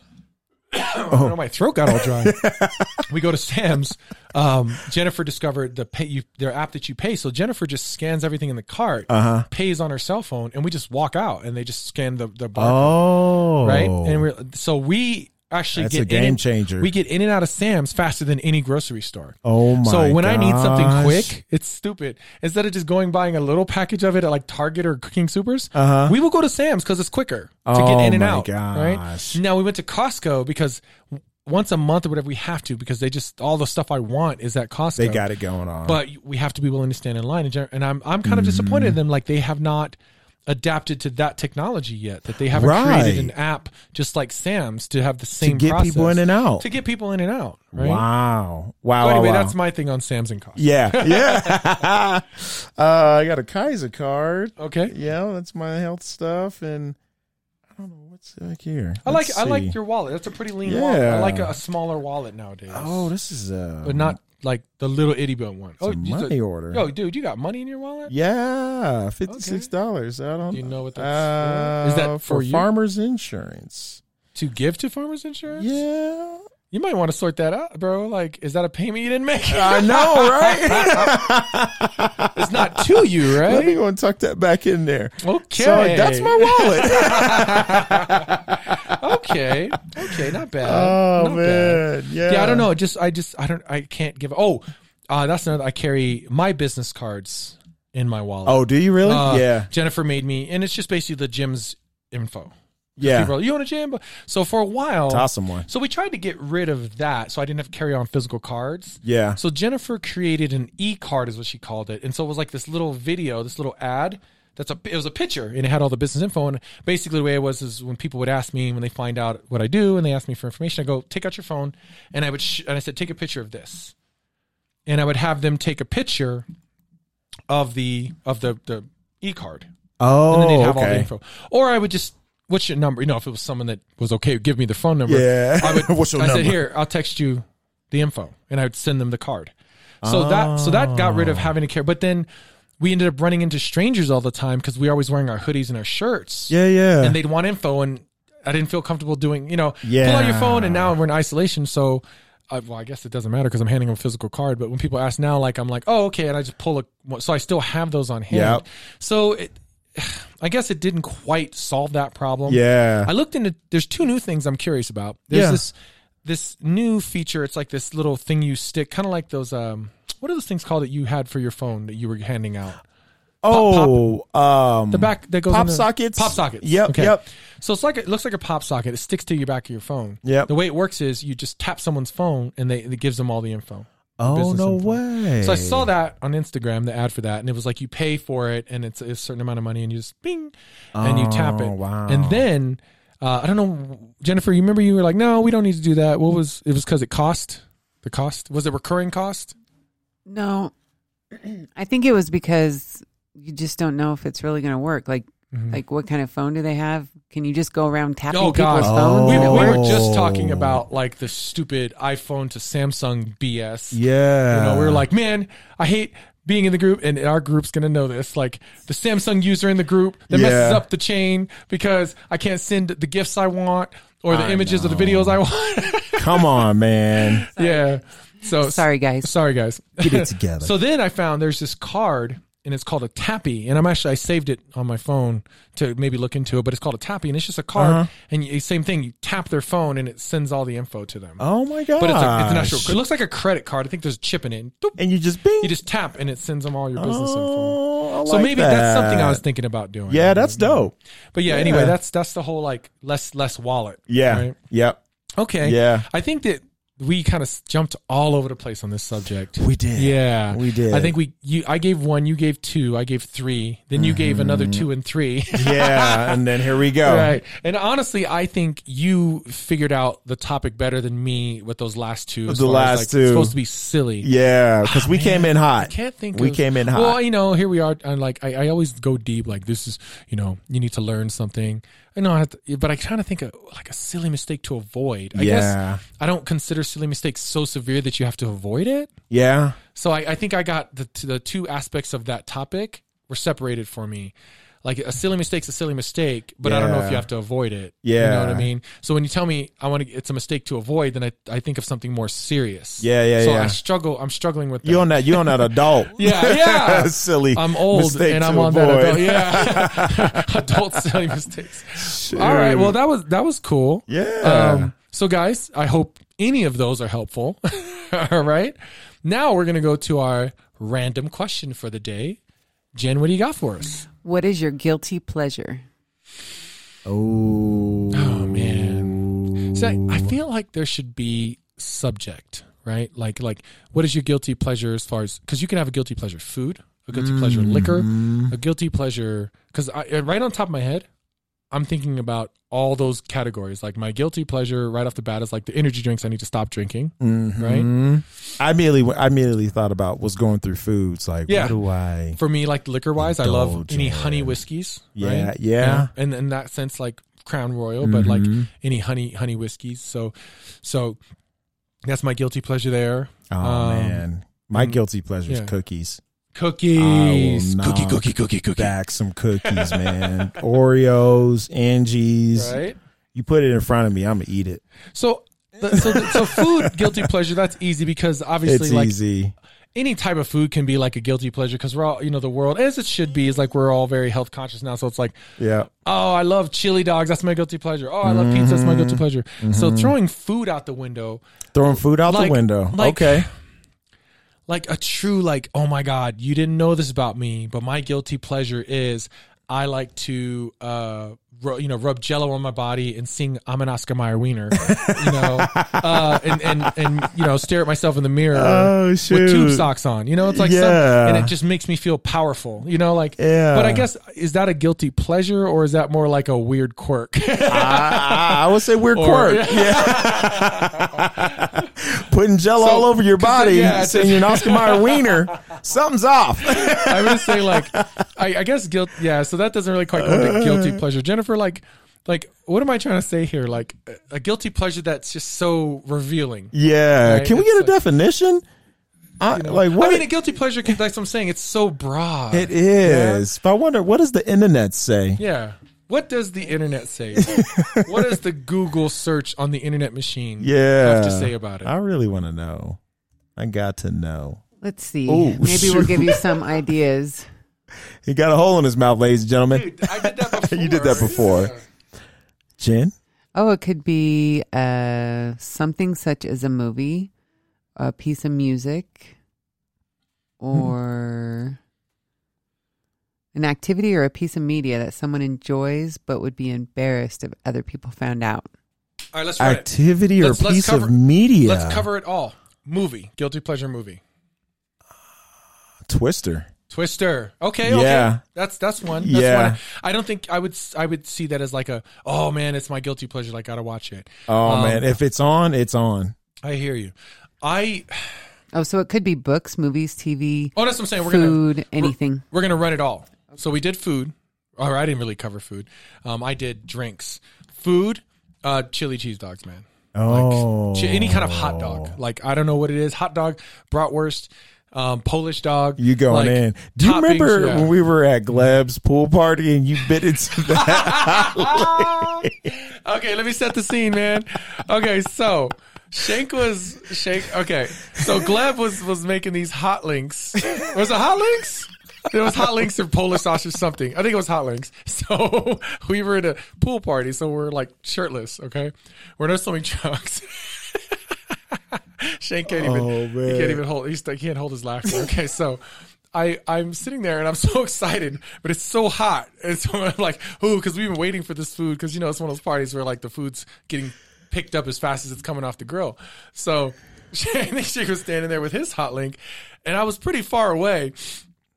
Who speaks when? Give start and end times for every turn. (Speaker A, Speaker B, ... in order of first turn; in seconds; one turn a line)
Speaker A: 0.7-2.4
Speaker B: 1.1-1.4
Speaker B: 1.9-3.0
Speaker A: 3.0-13.0
Speaker B: 9.1-9.5
Speaker B: 12.6-14.2
Speaker A: 13.6-35.2
Speaker B: 15.8-16.9
Speaker B: 19.4-21.3
Speaker B: 25.8-26.1
Speaker B: 27.7-29.4
Speaker B: 35.0-36.0
Speaker A: 35.9-48.0
Speaker B: 38.2-39.0
Speaker B: 42.5-43.3
Speaker B: 45.4-46.6
Speaker B: 47.8-49.5
Speaker A: 49.0-51.6
Speaker B: 50.6-57.0
Speaker A: 54.6-54.9
Speaker B: 57.7-59.8
Speaker A: 59.0-63.1
Speaker B: 60.6-61.6
Speaker B: 62.7-64.2
Speaker A: 63.8-68.1
Speaker B: 65.8-66.8
Speaker B: 68.1-74.0
Speaker A: 69.3-69.7
Speaker A: 70.5-72.7
Speaker A: 74.3-75.7
Speaker B: 75.6-76.4
Speaker A: 76.7-81.2
Speaker B: 79.5-92.7
Speaker A: 82.3-83.8
Speaker A: 85.2-123.9
Speaker B: 98.5-99.7
Speaker B: 103.0-103.3
Speaker B: 105.1-105.7
Speaker B: 109.0-109.4
Speaker A: 124.9-126.5
Speaker A: 127.5-129.7
Speaker B: 130.0-131.1
Speaker A: 130.3-142.3
Speaker B: 135.1-136.6
Speaker B: 140.0-141.5
Speaker A: 142.8-172.8
Speaker B: 146.5-147.2
Speaker B: 149.8-151.0
Speaker B: 158.3-158.6
Speaker B: 162.5-163.1
Speaker B: 165.3-165.6
Speaker B: 173.4-177.2
Speaker A: 173.5-174.0
Speaker A: 174.9-199.6
Speaker B: 180.2-180.5
Speaker B: 184.2-185.9
Speaker B: 190.9-192.4
Speaker C: 200.3-200.7
Speaker C: 201.4-210.0
Speaker A: 205.5-205.8
Speaker A: 208.3-226.7
Speaker B: 208.8-210.8
Speaker B: 213.9-215.1
Speaker B: 220.3-220.8
Speaker B: 224.3-225.4
Speaker B: 226.2-227.5
Speaker A: 227.2-241.4
Speaker C: 227.6-229.3
Speaker B: 230.0-230.7
Speaker B: 237.8-238.1
Speaker B: 241.4-243.0
Speaker A: 242.0-245.0
Speaker B: 245.0-245.7
Speaker A: 245.6-254.6
Speaker B: 247.0-249.4
Speaker B: 250.1-250.9
Speaker B: 251.5-251.9
Speaker B: 254.1-255.0
Speaker A: 255.4-266.4
Speaker B: 255.6-256.1
Speaker B: 259.6-261.1
Speaker B: 263.9-264.9
Speaker B: 265.5-267.4
Speaker A: 267.0-274.3
Speaker B: 272.5-273.6
Speaker B: 274.2-277.2
Speaker A: 274.8-289.1
Speaker B: 285.3-286.0
Speaker B: 289.3-289.8
Speaker A: 289.9-322.4
Speaker B: 296.6-297.3
Speaker B: 298.0-298.7
Speaker B: 303.0-303.8
Speaker B: 304.8-311.4
Speaker B: 311.9-313.0
Speaker B: 314.1-314.9
Speaker A: 322.9-324.1
Speaker C: 324.2-325.8
Speaker B: 327.1-330.4
Speaker A: 328.1-341.1
Speaker B: 337.1-338.5
Speaker A: 341.7-347.9
Speaker B: 347.2-352.4
Speaker A: 351.5-351.8
Speaker A: 352.4-361.2
Speaker B: 353.2-354.6
Speaker B: 355.2-356.1
Speaker B: 358.0-358.7
Speaker A: 362.1-365.7
Speaker B: 363.5-366.2
Speaker A: 366.5-368.9
Speaker B: 367.0-372.8
Speaker A: 369.6-370.6
Speaker A: 372.5-373.0
Speaker B: 373.3-374.8
Speaker A: 375.1-379.1
Speaker B: 375.9-377.3
Speaker B: 378.6-379.5
Speaker A: 379.9-385.4
Speaker B: 385.6-385.9
Speaker A: 386.0-391.4
Speaker B: 388.2-390.1
Speaker B: 391.7-393.5
Speaker A: 392.3-393.5
Speaker A: 394.7-421.9
Speaker B: 404.8-407.3
Speaker B: 408.5-409.9
Speaker B: 410.4-411.5
Speaker B: 413.4-414.1
Speaker B: 417.7-428.3
Speaker A: 422.8-425.4
Speaker A: 426.7-437.9
Speaker B: 430.2-431.0
Speaker B: 436.7-438.6
Speaker B: 439.4-440.3
Speaker A: 439.5-443.4
Speaker B: 442.5-445.4
Speaker A: 445.4-451.9
Speaker B: 447.4-448.4
Speaker B: 450.6-453.0
Speaker B: 453.6-454.6
Speaker C: 454.8-457.4
Speaker B: 455.3-456.6
Speaker B: 458.2-461.7
Speaker A: 459.7-461.8
Speaker B: 462.8-463.1
Speaker C: 463.6-467.3
Speaker C: 468.0-469.3
Speaker C: 470.6-471.8
Speaker C: 473.6-478.7
Speaker A: 479.3-484.2
Speaker B: 479.6-482.1
Speaker B: 486.1-486.7
Speaker A: 486.9-495.2
Speaker B: 487.8-488.4
Speaker B: 489.2-489.8
Speaker B: 494.5-496.4
Speaker A: 496.6-498.4
Speaker C: 498.7-502.4
Speaker A: 500.8-517.9
Speaker B: 510.1-512.1
Speaker B: 516.0-522.5
Speaker A: 520.5-561.4
Speaker B: 542.7-543.8